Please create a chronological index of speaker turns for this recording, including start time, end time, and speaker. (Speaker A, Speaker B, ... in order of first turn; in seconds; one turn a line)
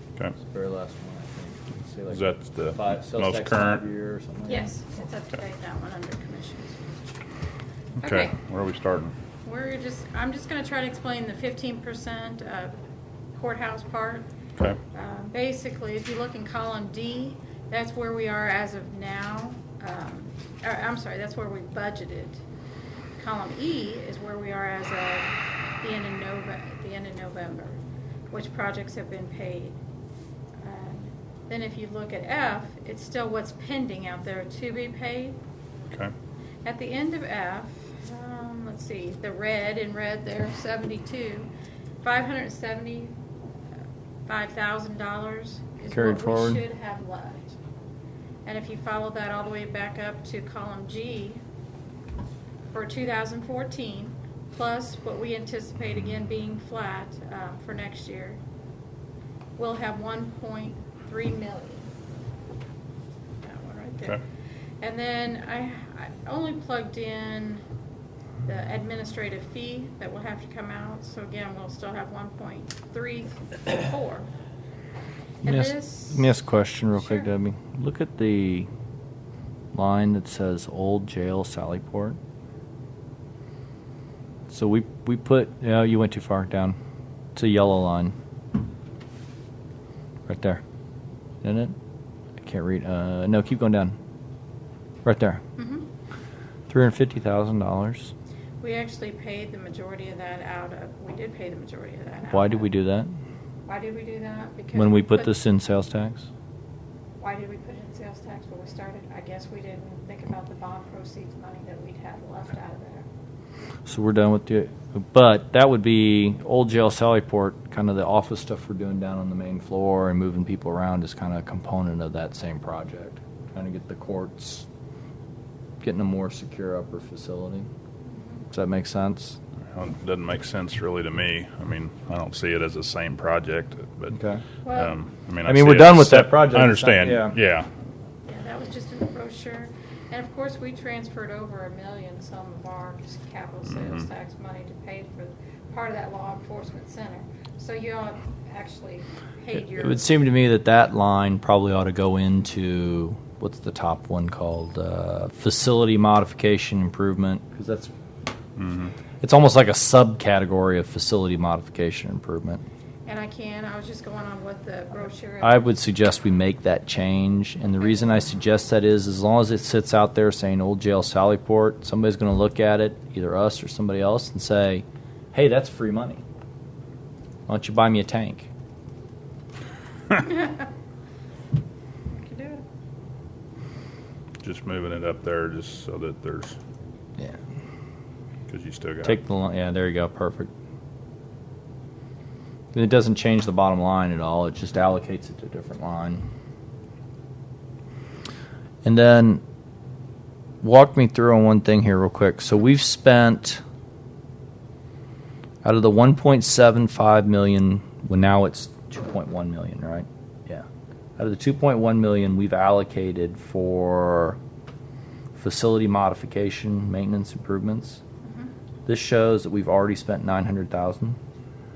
Speaker A: 0.4-4.7
Speaker B: 2.1-3.8
Speaker C: 4.5-6.9
Speaker C: 8.0-8.3
Speaker B: 8.0-9.1
Speaker C: 9.4-12.8
Speaker C: 13.3-14.3
Speaker C: 14.9-22.4
Speaker C: 23.2-27.8
Speaker C: 28.3-29.8
Speaker C: 30.6-35.4
Speaker C: 36.6-41.5
Speaker C: 42.0-43.1
Speaker C: 44.2-47.6
Speaker A: 45.9-46.6
Speaker C: 48.4-51.4
Speaker C: 52.7-58.4
Speaker C: 59.6-61.9
Speaker C: 63.4-64.2
Speaker C: 64.8-67.6
Speaker C: 68.4-74.3
Speaker C: 75.4-76.3
Speaker A: 75.4-78.7
Speaker C: 77.0-77.3
Speaker A: 79.7-82.2
Speaker A: 84.5-86.8
Speaker A: 87.3-88.1
Speaker A: 90.3-90.6
Speaker A: 91.4-91.7
Speaker A: 92.4-93.9
Speaker A: 95.0-95.4
Speaker C: 95.6-95.9
Speaker A: 96.7-98.1
Speaker C: 98.6-102.7
Speaker A: 102.3-103.1
Speaker C: 103.7-105.3
Speaker A: 104.7-106.3
Speaker C: 107.2-113.1
Speaker A: 113.8-124.7
Speaker A: 125.8-127.7
Speaker C: 128.1-128.4
Speaker A: 128.5-129.4
Speaker B: 129.7-137.7
Speaker A: 134.1-134.4
Speaker C: 134.6-134.9
Speaker A: 135.4-137.3
Speaker C: 138.2-150.0
Speaker A: 149.5-157.9
Speaker B: 158.6-158.9
Speaker A: 159.2-162.6
Speaker C: 163.1-165.7
Speaker A: 165.4-176.2
Speaker A: 177.5-178.5
Speaker C: 180.1-180.7
Speaker C: 182.1-182.6
Speaker B: 184.4-186.6
Speaker B: 188.5-189.2
Speaker A: 189.0-190.5
Speaker A: 192.7-196.2
Speaker A: 198.8-199.4
Speaker A: 200.6-203.6
Speaker A: 205.6-210.7
Speaker A: 211.2-214.4
Speaker A: 215.3-218.0
Speaker C: 218.2-218.5
Speaker A: 218.8-221.2